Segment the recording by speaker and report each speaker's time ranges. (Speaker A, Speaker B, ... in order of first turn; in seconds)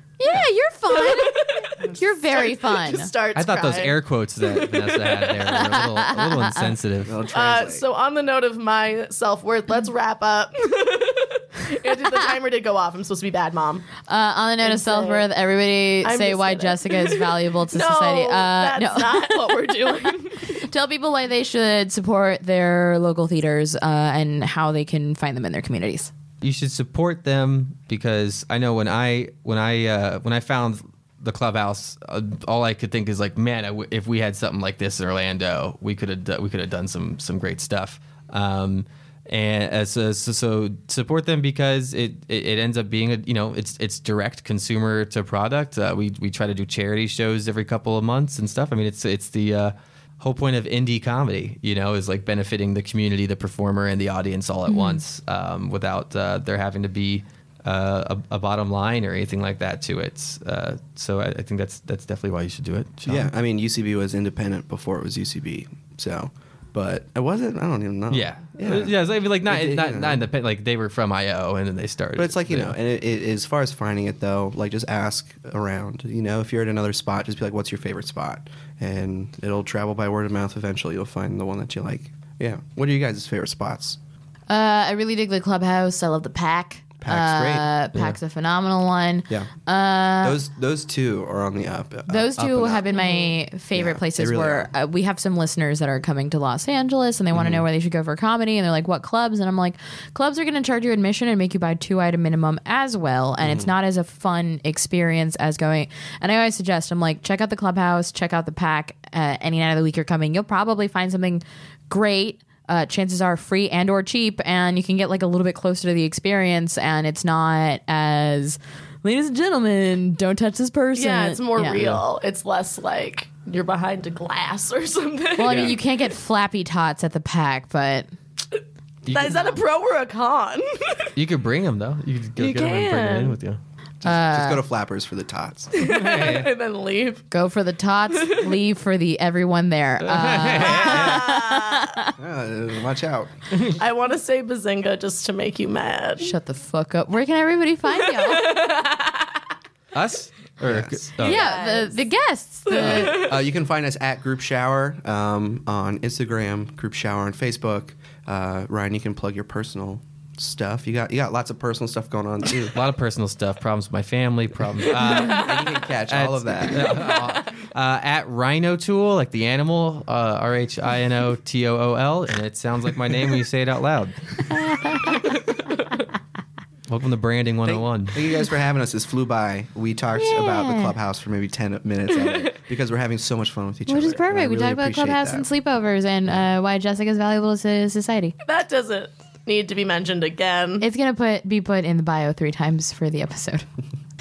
Speaker A: 0.2-3.1, 5.4-6.7, 14.1-26.1, 54.7-55.0, 84.5-90.4, 92.1-122.0, 125.4-128.1, 134.0-134.6, 137.3-142.1, 146.2-148.5, 151.2-153.3, 174.5-175.3, 180.1-180.9, 183.9-188.3, 190.8-193.7
Speaker B: 0.9-1.7, 2.3-5.4, 7.3-13.9, 14.6-15.2, 16.0-20.5, 92.9-93.3, 120.9-125.8, 129.1-131.1, 132.4-133.3, 135.7-137.2, 140.6-141.9, 143.6-146.3, 147.9-149.4, 151.2-152.0, 152.7-153.4, 188.4-190.8
Speaker C: 3.3-7.2, 26.4-63.3, 68.1-72.8, 121.7-122.0, 125.5-125.7, 129.0-129.6, 131.2-133.6, 135.8-136.5, 140.0-141.2, 149.9-151.5, 162.7-174.4, 176.9-178.2
Speaker D: 7.0-7.8, 63.0-68.9, 69.5-70.2, 72.2-84.0, 87.0-87.7, 90.2-92.8, 93.7-94.7, 97.3-97.6, 103.4-103.7, 134.0-135.8, 142.2-143.3, 150.6-151.2, 153.0-162.8, 165.0-167.0, 177.6-185.4